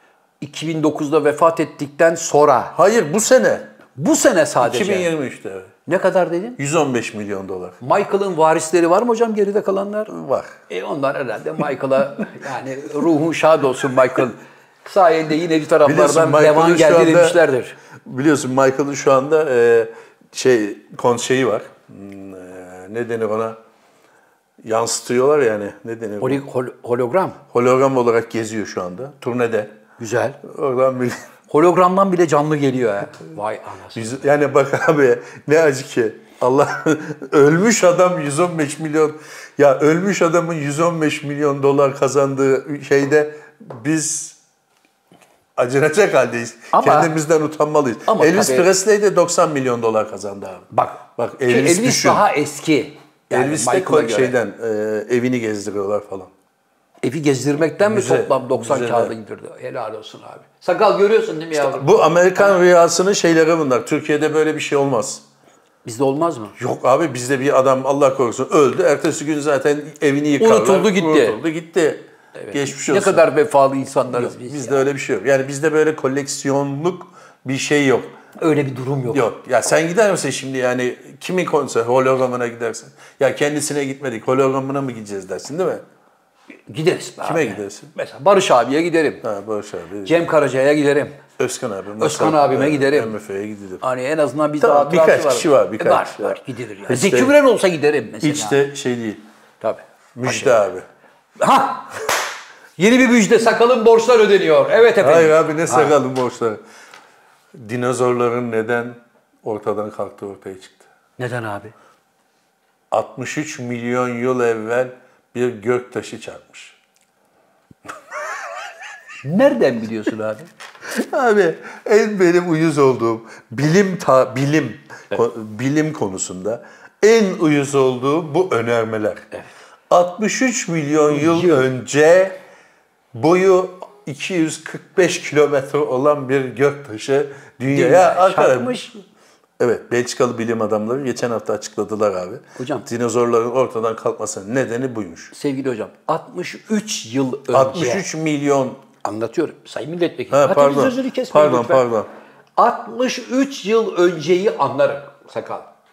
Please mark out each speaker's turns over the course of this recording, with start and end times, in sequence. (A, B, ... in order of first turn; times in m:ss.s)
0:00.4-0:02.7 A
0:02.7-0:03.7 B
0:04.0-0:05.1 A
0:04.6-0:05.7 B
0:05.8-0:06.6 A
0:06.6-0:07.8 B
0:07.8-0:10.1 A
0:10.1-0:10.6 B
0:10.7-0:17.7 A
0:15.8-0:17.4 B
0:18.0-0:23.6 B
0:24.6-0:26.4 B
0:26.2-0:27.4 A
0:27.5-0:29.7 B
0:30.0-0:30.4 A
0:30.4-0:31.2 B
0:31.5-0:34.2 A
0:33.9-0:44.4 B
0:45.6-0:52.2 B
0:46.7-0:47.1 A
0:48.1-0:48.7 A
0:50.7-0:54.4 A
0:53.3-0:56.3 B
0:57.0-1:02.5 A
0:57.8-0:59.1 B
1:01.5-1:05.2 B
1:05.8-1:06.5 A
1:06.6-1:13.2 B
1:10.4-1:11.4 A
1:12.4-1:14.9 A
1:14.1-1:18.1 B
1:18.4-1:19.3 A
1:19.1-1:25.8 B
1:26.7-1:29.2 A
1:27.2-1:27.9 B
1:29.2-1:30.3 B
1:30.0-1:31.2 A
1:31.4-1:33.8 B
1:32.0-1:33.1 A
1:33.8-1:38.6 A
1:34.6-1:37.3 B
1:38.2-1:39.2 B
1:39.6-1:40.6 A
1:40.2-1:40.8 B
1:41.4-1:42.0 A
1:42.8-1:45.9 A
1:45.0-1:46.6 B
1:47.6-1:50.9 B
1:51.2-1:51.7 A
1:52.9-1:56.8 B
1:59.2-2:00.5 A
2:00.9-2:09.2 B
2:09.9-2:12.4 B
2:11.1-2:11.6 A
2:13.1-2:18.9 B
2:17.7-2:18.9 A
2:19.6-2:25.3 B
2:22.6-2:22.8 A
2:25.3-2:28.1 A
2:27.5-2:28.8 B
2:29.0-2:31.8 A
2:30.3-2:32.1 B
2:32.6-2:35.7 A